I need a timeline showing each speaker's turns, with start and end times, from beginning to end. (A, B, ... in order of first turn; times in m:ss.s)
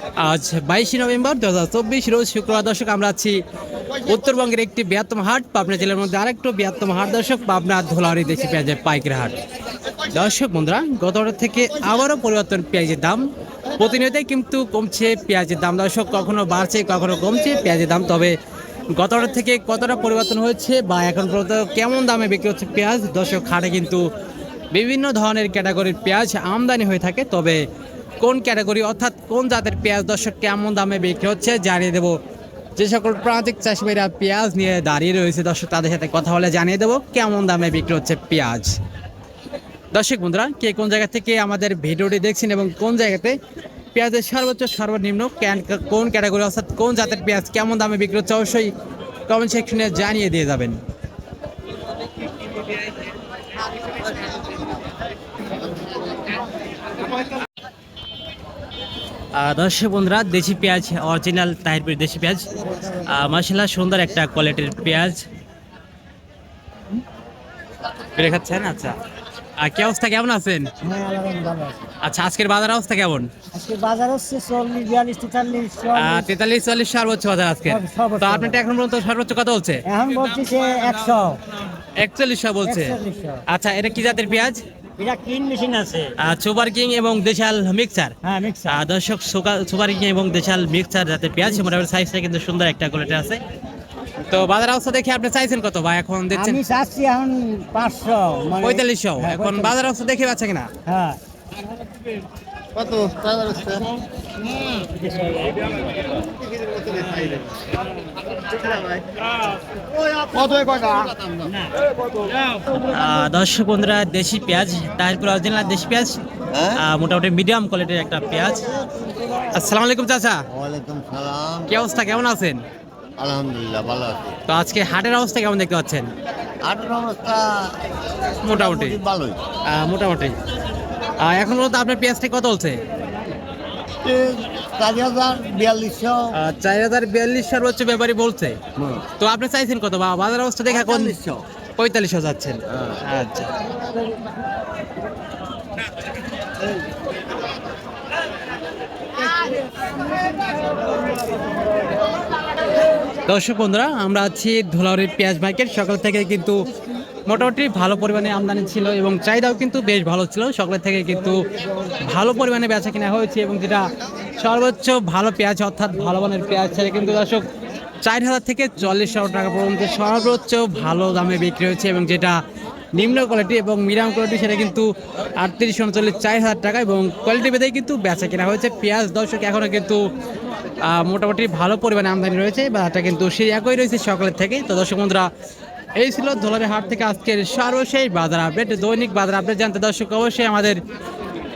0:00.2-0:03.4 A
0:04.0-0:09.4 A
0:10.1-0:13.3 A
0:13.8-0:18.4 A
0:18.9-0:24.1 A
0:24.7-0:27.6 A
0:28.2-0:32.2 A
0:32.8-0:38.8 A
0:39.9-0:43.4 A
0:43.9-0:48.7 A
0:49.3-0:50.8 A
0:59.4-1:05.2 A
1:08.2-1:09.0 A
1:09.6-1:10.7 A
1:10.8-1:11.8 B
1:12.0-1:13.3 A
1:13.5-1:16.3 B
1:16.0-1:19.8 A
1:17.7-1:18.6 B
1:19.9-1:21.4 B
1:22.0-1:23.0 A
1:22.6-1:23.4 B
1:23.5-1:24.6 A
1:25.0-1:26.1 B
1:26.2-1:28.2 A
1:28.2-1:28.8 B
1:28.7-1:33.4 A
1:34.3-1:36.6 A
1:36.3-1:39.8 B
1:38.6-1:40.7 A
1:40.9-1:41.2 B
1:42.8-1:43.8 C
1:45.3-1:45.6 B
1:50.2-1:51.4 C
1:52.7-1:56.2 A
1:56.5-1:56.8 C
1:56.8-1:58.8 A
1:59.5-2:00.4 A
2:00.5-2:02.2 C
2:01.7-2:02.6 A
2:03.2-2:04.4 C
2:04.5-2:06.1 A
2:06.6-2:07.7 C
2:08.4-2:09.0 A
2:08.4-2:09.4 C
2:09.7-2:10.4 A
2:11.2-2:12.8 A
2:14.0-2:16.3 C
2:16.4-2:18.6 A
2:18.8-2:19.0 C
2:19.2-2:21.2 A
2:20.7-2:21.4 C
2:21.8-2:23.5 A
2:22.7-2:23.0 C
2:33.3-2:36.6 A
2:37.3-2:41.4 A
2:42.0-2:43.9 A
2:44.4-2:47.4 A
2:48.0-2:52.4 A
2:52.9-3:00.0 A
3:00.8-3:05.3 A
3:06.0-3:10.8 A